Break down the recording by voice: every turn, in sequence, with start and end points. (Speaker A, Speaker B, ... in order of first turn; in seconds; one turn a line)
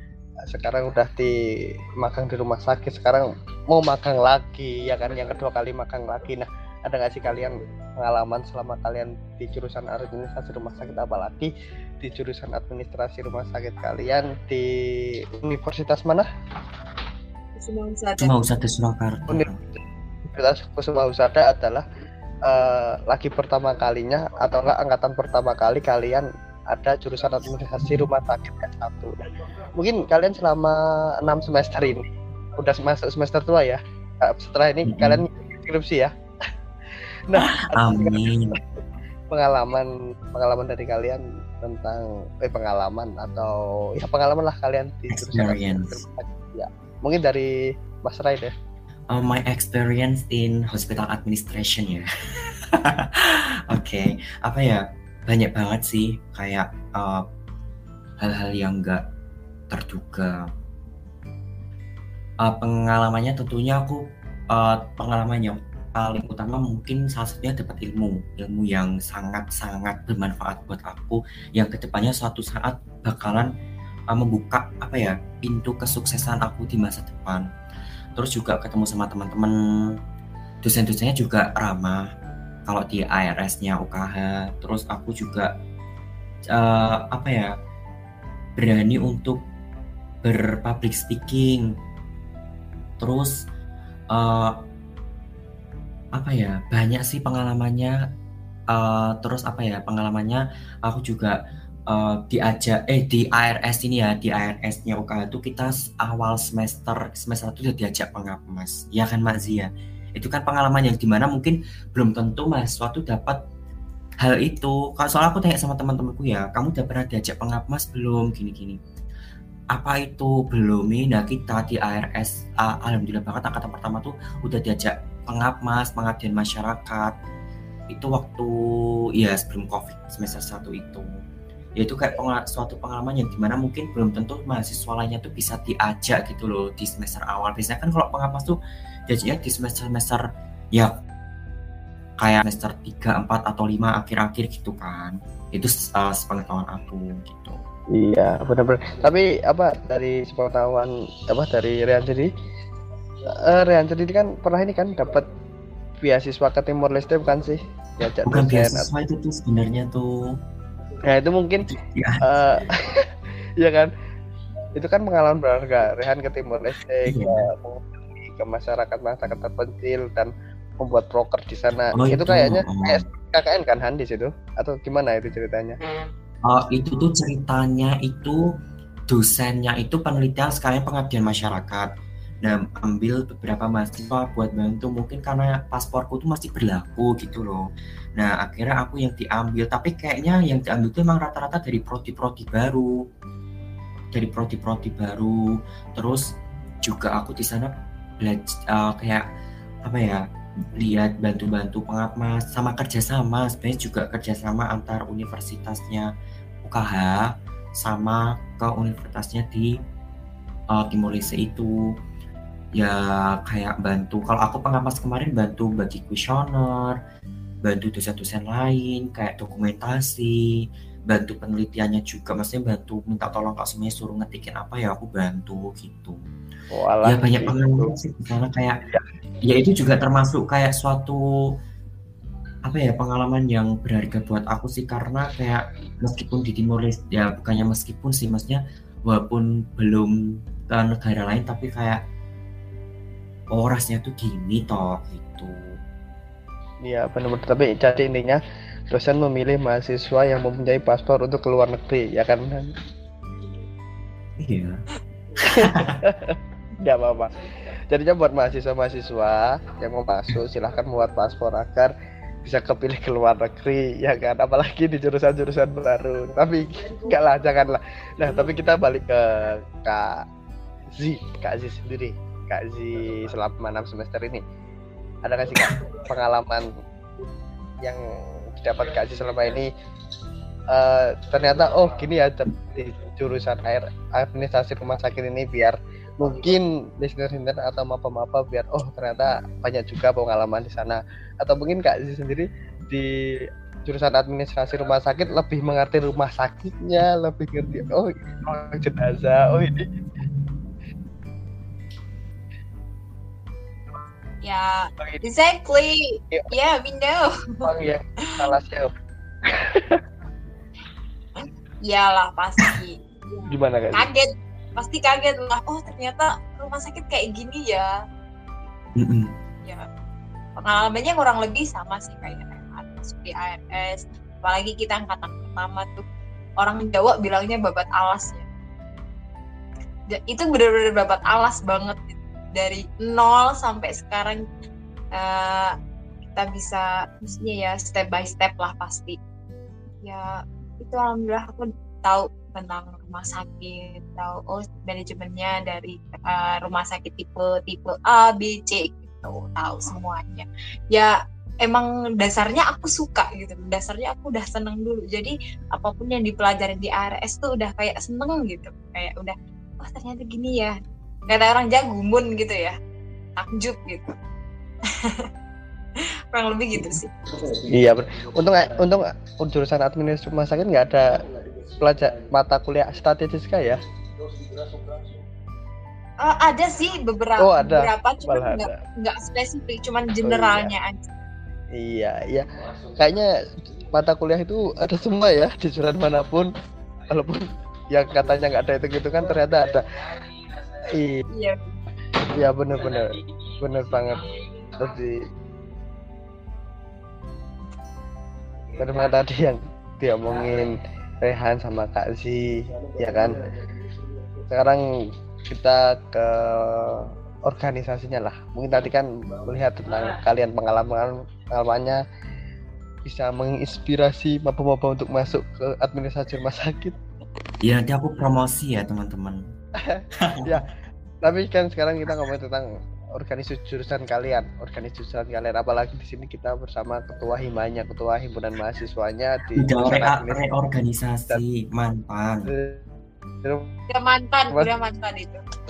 Speaker A: 0.5-1.4
Speaker A: 2.0-16.3
Speaker B: 17.6-18.3
Speaker C: 18.2-19.6
Speaker A: 20.3-21.8
Speaker A: 22.4-29.1
Speaker A: 29.8-32.1
Speaker A: 32.6-36.1
Speaker C: 34.8-35.2
Speaker A: 37.3-38.2
Speaker C: 37.4-38.6
Speaker A: 39.3-47.5
Speaker C: 45.1-46.0
Speaker A: 48.0-48.5
Speaker C: 49.1-52.1
Speaker C: 52.6-57.2
Speaker C: 58.2-59.0
Speaker C: 59.7-60.5
Speaker C: 62.4-73.5
Speaker C: 74.1-77.5
Speaker C: 78.2-79.5
Speaker C: 80.6-82.0
Speaker C: 82.7-85.5
Speaker C: 86.5-87.5
Speaker C: 88.6-89.4
Speaker C: 90.2-91.7
Speaker C: 93.0-93.5
Speaker C: 94.1-94.6
Speaker C: 96.1-98.0
Speaker C: 98.7-101.4
Speaker C: 101.9-113.4
Speaker C: 114.2-118.8
Speaker C: 119.7-127.1
Speaker C: 127.9-128.5
Speaker C: 129.2-131.2
Speaker C: 131.8-138.6
Speaker C: 139.1-140.2
Speaker C: 142.2-147.6
Speaker A: 147.9-152.3
Speaker A: 153.3-155.2
Speaker A: 156.0-158.8
Speaker C: 158.2-160.3
Speaker A: 161.0-161.7
Speaker C: 161.7-162.3
Speaker A: 162.2-163.1
Speaker A: 163.6-163.9
Speaker A: 164.7-175.8
Speaker C: 167.0-167.5
Speaker C: 172.0-173.0
Speaker C: 176.4-178.5
Speaker C: 179.1-181.9
Speaker C: 182.4-193.0
Speaker C: 194.1-196.3
Speaker C: 196.8-199.2
Speaker C: 199.8-200.2
Speaker C: 200.8-206.1
Speaker C: 206.6-207.3
Speaker C: 207.8-209.7
Speaker C: 210.7-211.7
Speaker C: 212.7-217.0
Speaker C: 217.6-226.2
Speaker A: 226.7-227.9
Speaker C: 227.0-228.8
Speaker C: 229.4-231.2
Speaker C: 232.7-240.1
Speaker C: 240.7-242.0
Speaker C: 243.5-245.8
Speaker A: 246.8-252.7
Speaker C: 254.4-254.8
Speaker C: 255.4-256.0
Speaker A: 255.5-257.3
Speaker A: 257.9-261.9
Speaker A: 262.4-270.2
Speaker A: 270.9-274.4
Speaker A: 275.2-276.7
Speaker A: 278.6-279.7
Speaker A: 280.7-300.0
Speaker B: 304.4-307.6
Speaker A: 307.6-308.9
Speaker A: 309.5-310.0
Speaker B: 311.8-317.9
Speaker A: 313.5-314.1
Speaker C: 319.0-319.3
Speaker B: 320.6-326.0
Speaker B: 326.6-328.5
Speaker B: 330.1-334.4
Speaker B: 335.1-335.7
Speaker B: 336.3-339.2
Speaker B: 340.0-360.7
Speaker B: 361.3-362.8
Speaker B: 363.4-364.1
Speaker B: 364.9-365.3
Speaker B: 366.3-367.1
Speaker A: 367.5-371.1
Speaker A: 371.8-373.8
Speaker B: 376.2-381.1
Speaker A: 377.4-378.7
Speaker A: 380.2-380.7
Speaker A: 381.7-382.4
Speaker A: 383.0-383.3
Speaker A: 383.9-386.5
Speaker A: 387.1-389.8
Speaker A: 390.9-391.2
Speaker B: 391.3-391.8
Speaker A: 392.3-394.2
Speaker A: 394.8-395.2
Speaker A: 398.8-403.4
Speaker A: 404.5-412.0
Speaker A: 413.1-417.0
Speaker C: 417.6-419.4
Speaker A: 419.8-420.6
Speaker C: 420.2-420.6
Speaker A: 421.2-430.4
Speaker C: 429.5-432.5
Speaker A: 432.5-432.8
Speaker A: 433.4-433.7
Speaker B: 433.9-435.4